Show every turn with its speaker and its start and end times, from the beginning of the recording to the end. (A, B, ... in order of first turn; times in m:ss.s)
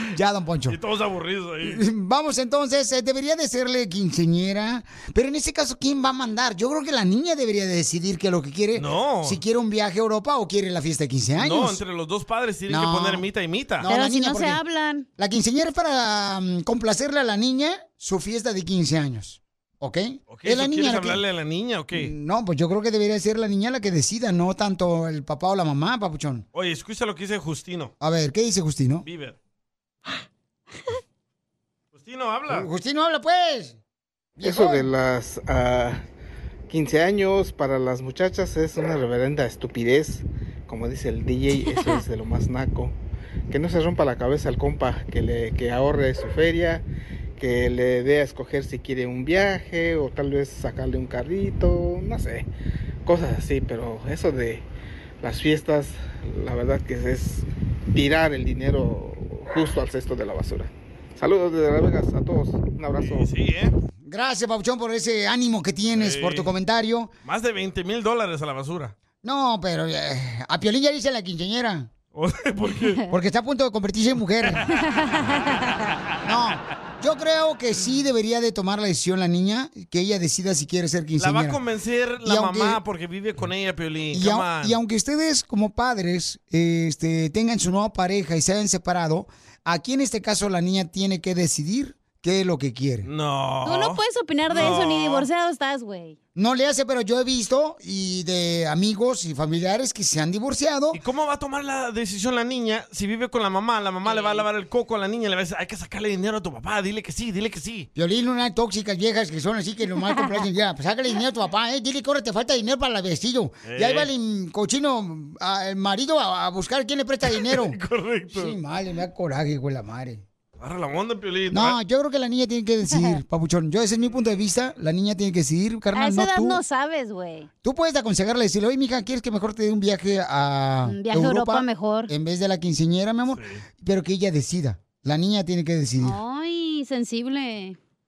0:00.1-0:00.8 A
0:00.7-0:01.8 B
0:01.6-0:11.8 A
0:08.7-0:09.4 B
0:11.4-0:13.9 B
0:12.7-0:13.2 A
0:13.8-0:14.6 A
0:13.9-0:15.0 C
0:15.2-0:21.2 A
0:20.3-0:22.1 B
0:21.9-0:26.4 A
0:26.5-0:27.9 B
0:28.0-0:29.0 A
0:29.0-0:29.4 B
0:31.9-0:32.7 B
0:32.5-0:33.8 A
0:34.4-0:34.9 A
0:34.4-0:36.0 D
0:36.7-0:42.9 D
0:41.7-0:42.0 C
0:43.5-0:46.8 D
0:47.4-0:52.4 D
0:53.0-0:54.6 D
0:55.2-1:03.2 D
1:03.0-1:03.7 B
1:04.0-1:07.1 A
1:05.9-1:06.5 B
1:07.2-1:08.9 B
1:09.2-1:11.9 A
1:12.1-1:13.0 B
1:13.1-1:14.6 A
1:14.8-1:15.6 C
1:16.2-1:21.6 A
1:21.2-1:24.8 B
1:22.2-1:22.8 A
1:24.1-1:33.1 A
1:33.0-1:35.3 B
1:33.6-1:36.2 C
1:36.3-1:41.0 A
1:40.9-1:47.9 B
1:44.0-1:44.4 C
1:47.9-1:57.8 A
1:53.6-1:54.1 B
1:57.3-1:58.5 B
1:58.3-2:00.2 A
2:00.6-2:01.8 B
2:01.5-2:06.6 A
2:05.9-2:07.5 C
2:07.6-2:16.2 A
2:10.9-2:12.1 C
2:13.3-2:13.6 B
2:16.0-2:17.8 C